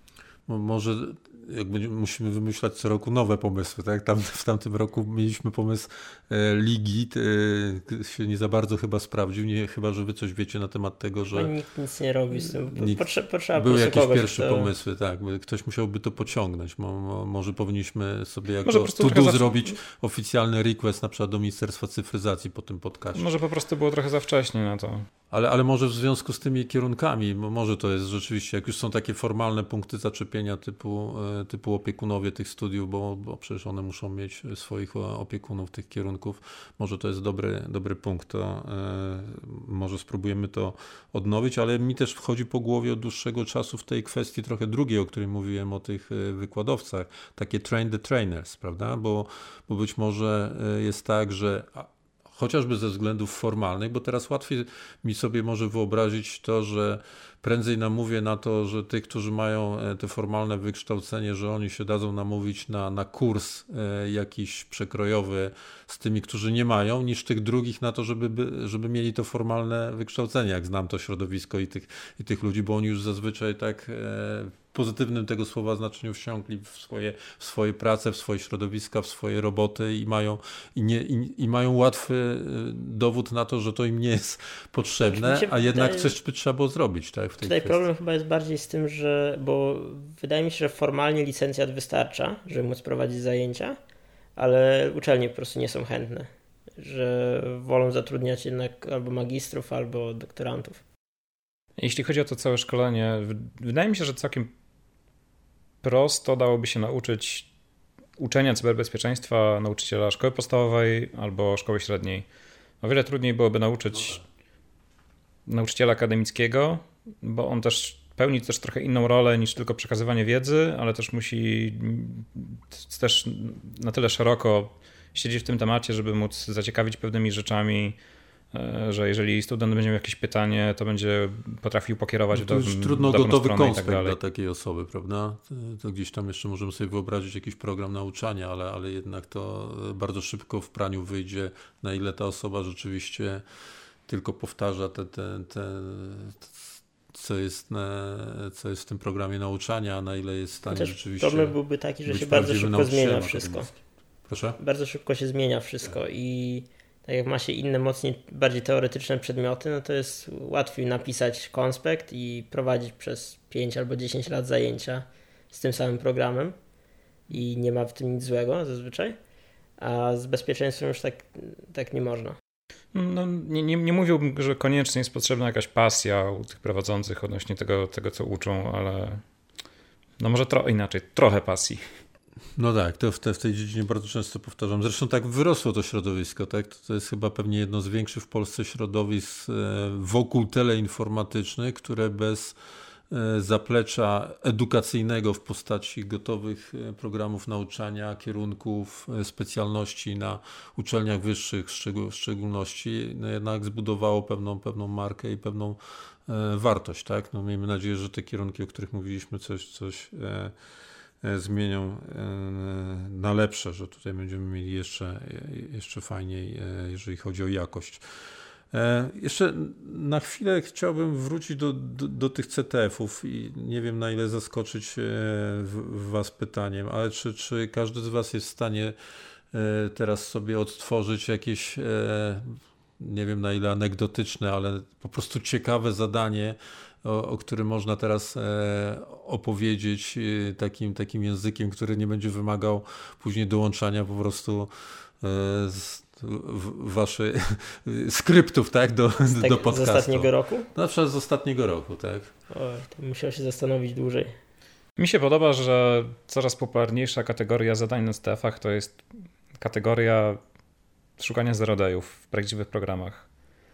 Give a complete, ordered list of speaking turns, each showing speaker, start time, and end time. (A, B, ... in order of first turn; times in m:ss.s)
0:00.5-0:11.5 A
0:11.3-0:14.7 B
0:12.7-0:23.3 A
0:18.6-0:19.7 C
0:23.2-0:25.1 C
0:25.3-1:27.8 A
1:25.1-1:26.1 B
1:27.4-1:33.8 B
1:34.4-1:40.8 B
1:41.8-1:44.5 C
1:45.8-1:47.5 C
1:48.2-1:52.3 C
1:52.8-1:54.2 C
1:54.0-1:54.2 A
1:55.5-2:08.0 C
2:08.5-2:14.2 C
2:12.3-2:23.4 A
2:24.1-2:31.6 A
2:30.7-2:33.7 B
2:32.1-2:34.6 A
2:34.6-2:46.6 B
2:47.3-2:49.2 B
2:49.8-2:52.4 B
2:52.9-2:59.2 C
3:00.2-3:01.8 C
3:02.6-3:12.6 A
3:13.1-3:30.5 A
3:31.2-3:38.0 A
3:38.7-3:49.0 A
3:49.5-4:04.7 A
4:05.2-4:12.3 A
4:09.4-4:10.7 B
4:12.5-4:14.3 B
4:15.0-4:19.0 C
4:19.6-4:20.4 C
4:21.2-4:23.3 C